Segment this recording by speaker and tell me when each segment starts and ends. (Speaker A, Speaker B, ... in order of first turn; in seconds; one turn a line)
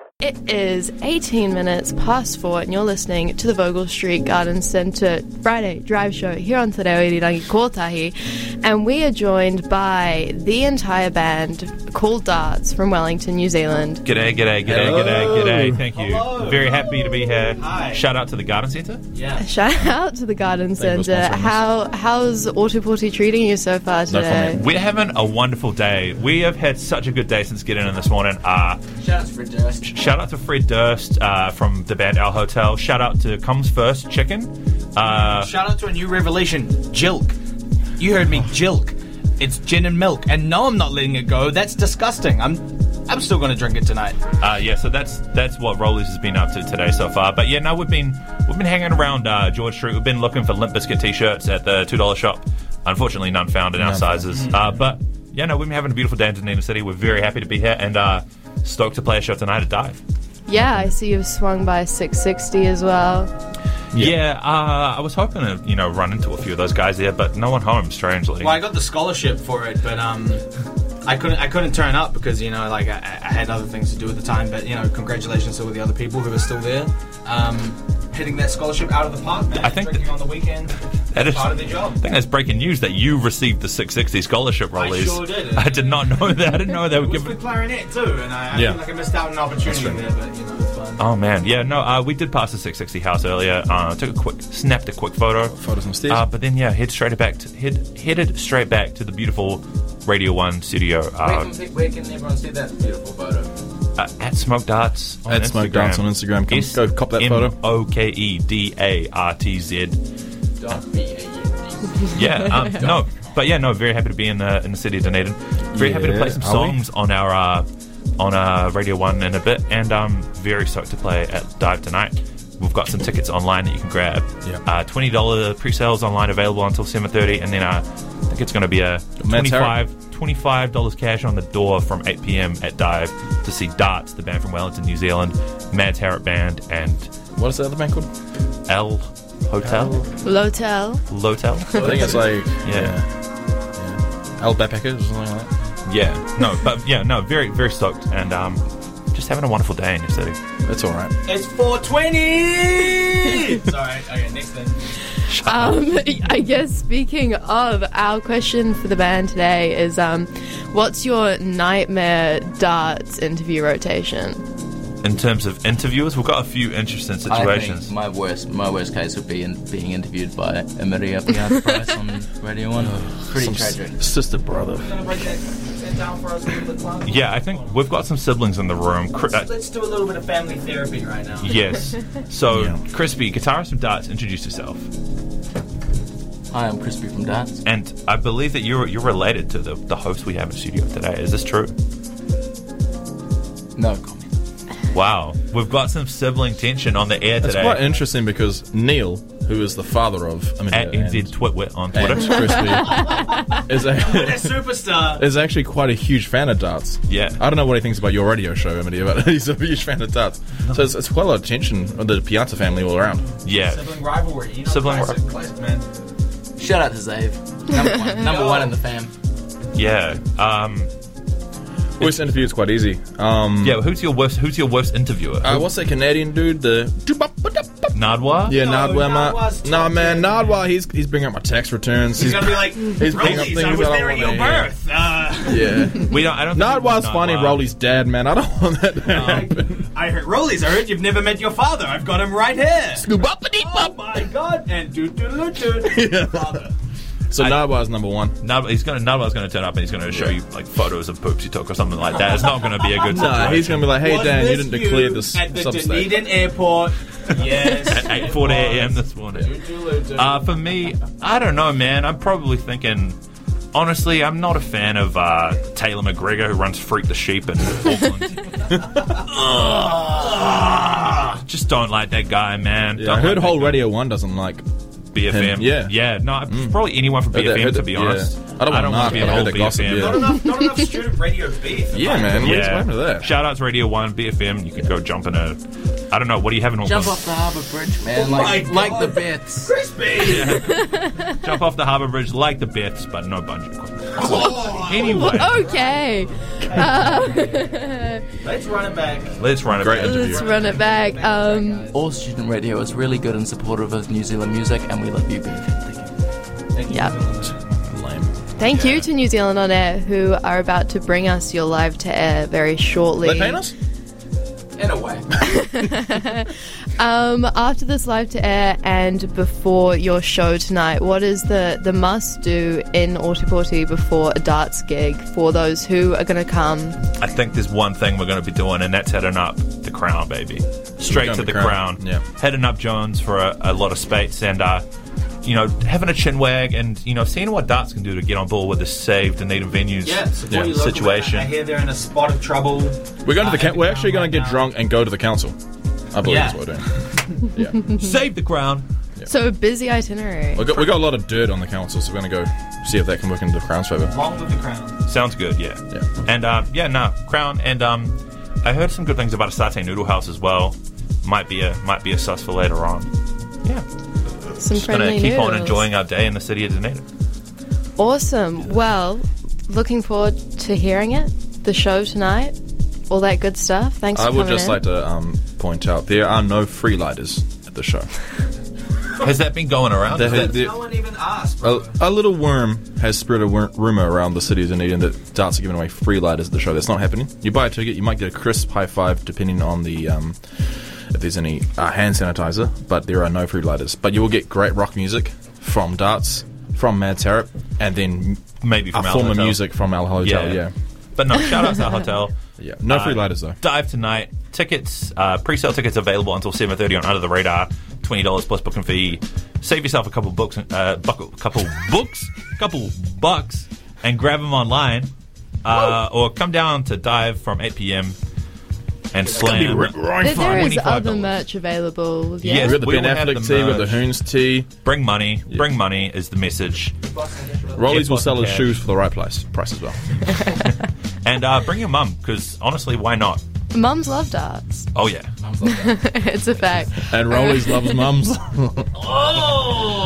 Speaker A: 0.2-14.0
Speaker B: 14.0-19.0
Speaker C: 14.6-15.8
Speaker D: 15.0-18.0
Speaker D: 19.1-19.4
Speaker A: 19.4-24.6
Speaker C: 20.8-21.6
Speaker C: 24.1-24.6
Speaker B: 24.5-28.8
Speaker D: 29.0-29.8
Speaker E: 29.1-29.8
Speaker B: 29.8-35.5
Speaker D: 35.2-37.4
Speaker D: 38.0-44.2
Speaker B: 44.4-60.0
Speaker C: 53.8-54.2
Speaker A: 60.5-63.3
Speaker B: 63.9-68.7
Speaker D: 68.4-70.4
Speaker D: 71.0-82.0
Speaker B: 79.6-80.2
Speaker B: 81.1-87.4
Speaker D: 84.7-86.0
Speaker D: 86.9-91.0
Speaker C: 88.5-88.8
Speaker C: 89.6-90.0
Speaker B: 91.0-101.5
Speaker C: 95.5-96.2
Speaker E: 101.2-103.5
Speaker B: 104.0-110.0
Speaker C: 105.2-107.5
Speaker E: 110.6-112.2
Speaker B: 112.1-117.7
Speaker C: 115.7-116.8
Speaker B: 118.2-137.1
Speaker C: 129.2-129.8
Speaker C: 137.3-138.1
Speaker B: 138.7-140.1
Speaker A: 140.2-141.1
Speaker B: 141.1-143.0
Speaker C: 141.8-143.1
Speaker C: 143.7-145.5
Speaker B: 145.8-150.4
Speaker C: 150.6-151.1
Speaker D: 151.2-154.9
Speaker B: 155.3-155.8
Speaker A: 155.4-164.4
Speaker B: 165.0-167.9
Speaker E: 167.2-174.1
Speaker C: 172.8-175.0
Speaker D: 174.8-177.8
Speaker B: 177.0-179.5
Speaker D: 179.3-181.6
Speaker B: 181.4-184.9
Speaker C: 182.5-182.8
Speaker E: 186.5-187.6
Speaker B: 187.6-191.7
Speaker E: 193.8-194.3
Speaker B: 194.9-197.8
Speaker C: 197.4-201.3
Speaker B: 200.7-203.0
Speaker C: 201.9-213.3
Speaker D: 203.1-205.2
Speaker B: 207.1-207.4
Speaker B: 213.4-214.0
Speaker D: 213.6-215.8
Speaker B: 214.6-215.2
Speaker E: 216.6-219.1
Speaker D: 218.3-218.7
Speaker B: 219.7-220.9
Speaker C: 222.0-223.8
Speaker B: 222.0-222.5
Speaker B: 223.6-225.6
Speaker C: 225.4-234.7
Speaker B: 227.9-228.6
Speaker D: 228.5-230.5
Speaker D: 232.1-235.9
Speaker B: 233.2-233.6
Speaker C: 235.4-239.8
Speaker B: 236.0-237.7
Speaker D: 239.1-243.1
Speaker B: 239.1-239.4
Speaker C: 243.0-244.0
Speaker D: 243.6-246.7
Speaker C: 245.8-246.6
Speaker C: 247.3-248.3
Speaker B: 247.4-247.7
Speaker B: 248.4-253.9
Speaker C: 253.0-256.3
Speaker D: 253.9-258.9
Speaker B: 257.8-263.2
Speaker D: 259.8-260.4
Speaker B: 263.7-273.9
Speaker C: 272.9-274.6
Speaker B: 275.1-280.4
Speaker C: 275.2-276.8
Speaker C: 277.3-280.3
Speaker E: 279.0-279.4
Speaker D: 279.4-282.5
Speaker C: 281.9-283.3
Speaker B: 282.3-287.2
Speaker E: 286.8-289.7
Speaker D: 288.1-290.7
Speaker B: 290.2-295.6
Speaker A: 290.5-291.4
Speaker A: 294.2-298.2
Speaker D: 294.4-296.1
Speaker D: 296.6-297.6
Speaker D: 298.4-299.4
Speaker B: 299.4-300.4
Speaker C: 299.8-300.5
Speaker A: 299.9-301.9
Speaker D: 300.2-302.0
Speaker E: 301.9-306.1
Speaker D: 306.7-307.8
Speaker A: 306.9-307.1
Speaker C: 307.9-308.3
Speaker A: 308.6-313.6
Speaker B: 308.7-309.1
Speaker C: 313.2-313.7
Speaker E: 314.8-315.3
Speaker A: 315.3-327.0
Speaker B: 327.2-334.8
Speaker C: 331.1-332.2
Speaker B: 335.4-341.5
Speaker D: 340.0-344.7
Speaker C: 343.2-345.6
Speaker C: 346.1-346.9
Speaker D: 346.2-346.7
Speaker C: 347.4-347.8
Speaker B: 347.9-348.9
Speaker A: 349.2-350.8
Speaker C: 350.5-354.1
Speaker D: 354.1-355.0
Speaker B: 355.1-363.1
Speaker A: 364.6-365.9
Speaker B: 364.7-367.0
Speaker A: 368.0-372.6
Speaker A: 373.1-374.8
Speaker C: 374.1-378.1
Speaker B: 379.2-380.5
Speaker C: 380.1-380.9
Speaker D: 380.1-381.9
Speaker C: 381.6-400.7
Speaker B: 398.6-402.4
Speaker C: 402.6-403.6
Speaker B: 402.9-415.1
Speaker B: 415.6-418.1
Speaker B: 419.1-421.4
Speaker E: 419.2-419.6
Speaker C: 419.4-420.7
Speaker A: 420.2-422.8
Speaker B: 422.4-424.1
Speaker C: 422.5-424.7
Speaker B: 424.8-426.9
Speaker E: 427.0-427.8
Speaker C: 427.8-430.0
Speaker B: 427.8-428.8
Speaker B: 430.4-433.4
Speaker A: 433.7-434.9
Speaker B: 434.9-435.3
Speaker E: 435.4-436.0
Speaker A: 435.6-438.1
Speaker C: 437.1-439.1